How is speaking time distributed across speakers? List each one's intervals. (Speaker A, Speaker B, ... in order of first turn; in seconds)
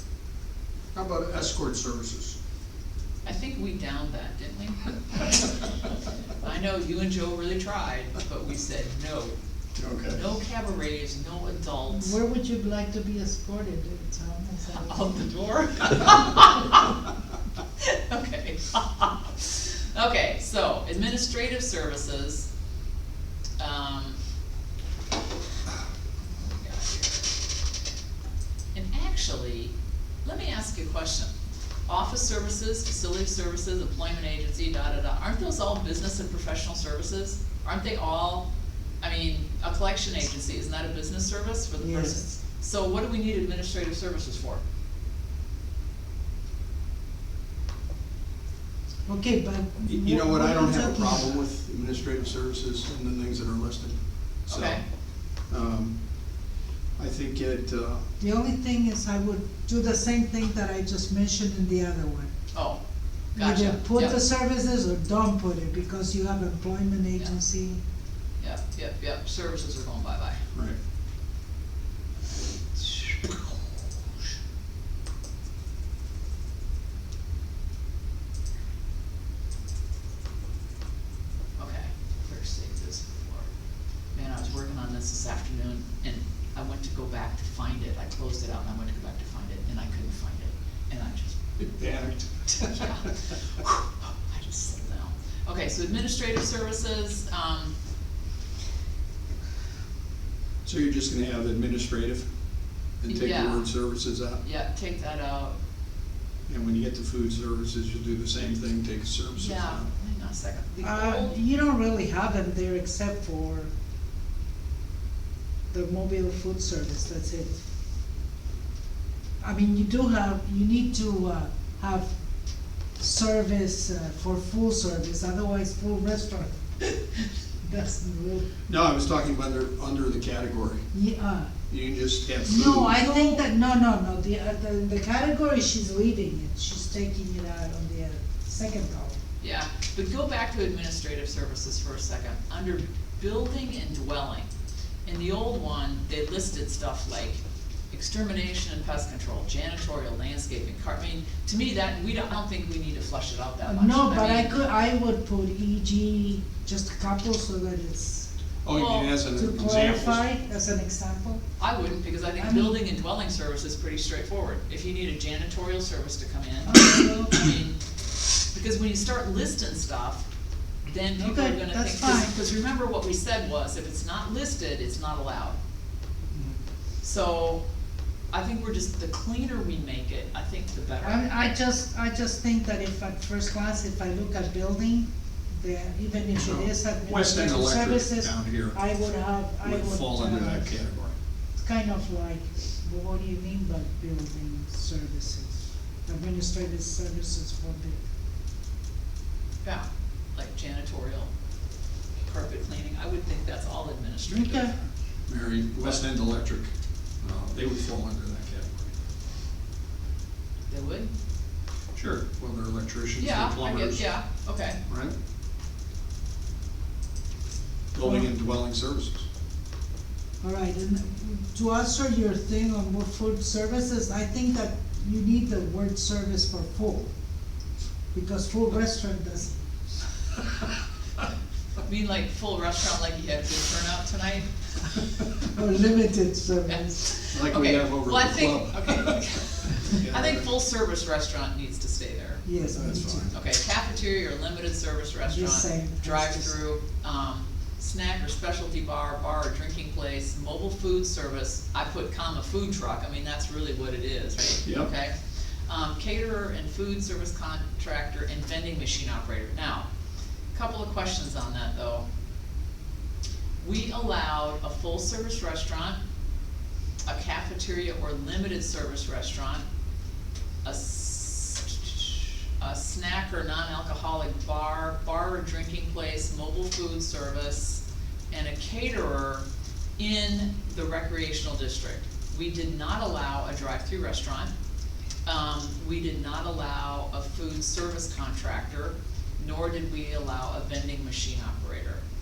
Speaker A: 0.9-2.4, 9.8-10.2, 49.9-54.8, 55.5-56.0, 57.0-58.0, 91.6-93.1, 100.6-102.3, 103.0-104.4, 106.5-109.8, 128.7-130.9, 131.7-133.0, 158.6-160.2, 186.3-188.8, 189.6-191.1, 205.3-206.7, 207.2-208.9, 211.9-214.1, 214.9-215.1, 217.9-219.2, 237.3-240.5, 242.6-243.3, 254.6-254.9
Speaker B: 3.2-5.6, 6.4-9.4, 10.1-12.2, 14.8-17.0, 17.8-22.5, 23.6-24.2, 26.5-27.3, 28.7-29.7, 30.2-31.3, 31.9-38.5, 39.0-44.6, 54.5-54.8, 62.5-62.8, 63.4-64.2, 68.4-70.4, 72.8-73.5, 81.6-83.5, 84.1-91.4, 92.6-97.7, 103.1-103.7, 104.4-105.5, 109.3-111.4, 133.0-133.4, 139.4-144.5, 145.1-154.6, 158.7-159.1, 161.6-167.8, 168.5-170.3, 170.8-175.6, 177.0-177.6, 178.3-181.2, 199.6-201.3, 202.3-204.7, 210.7-211.1, 213.2-214.8, 231.8-235.0, 236.7-242.4, 243.3-255.1, 255.7-259.9, 260.5-262.1, 263.6-266.0, 267.1-269.6, 270.6-279.4, 280.0-284.5, 285.3-292.0
Speaker C: 11.9-15.2, 41.8-42.2, 49.1-51.4, 58.2-62.3, 63.4-67.8, 110.8-113.7, 115.7-117.6, 119.4-122.1, 123.0-126.6, 127.6-128.5, 130.9-131.5, 132.4-139.2, 153.6-158.3, 159.3-161.4, 162.4-162.8, 166.7-167.4, 171.2-172.3, 181.0-190.8, 191.6-198.0, 204.3-204.7, 218.0-218.3, 220.4-227.1, 228.1-229.5, 235.4-237.1, 242.4-243.3, 245.3-246.6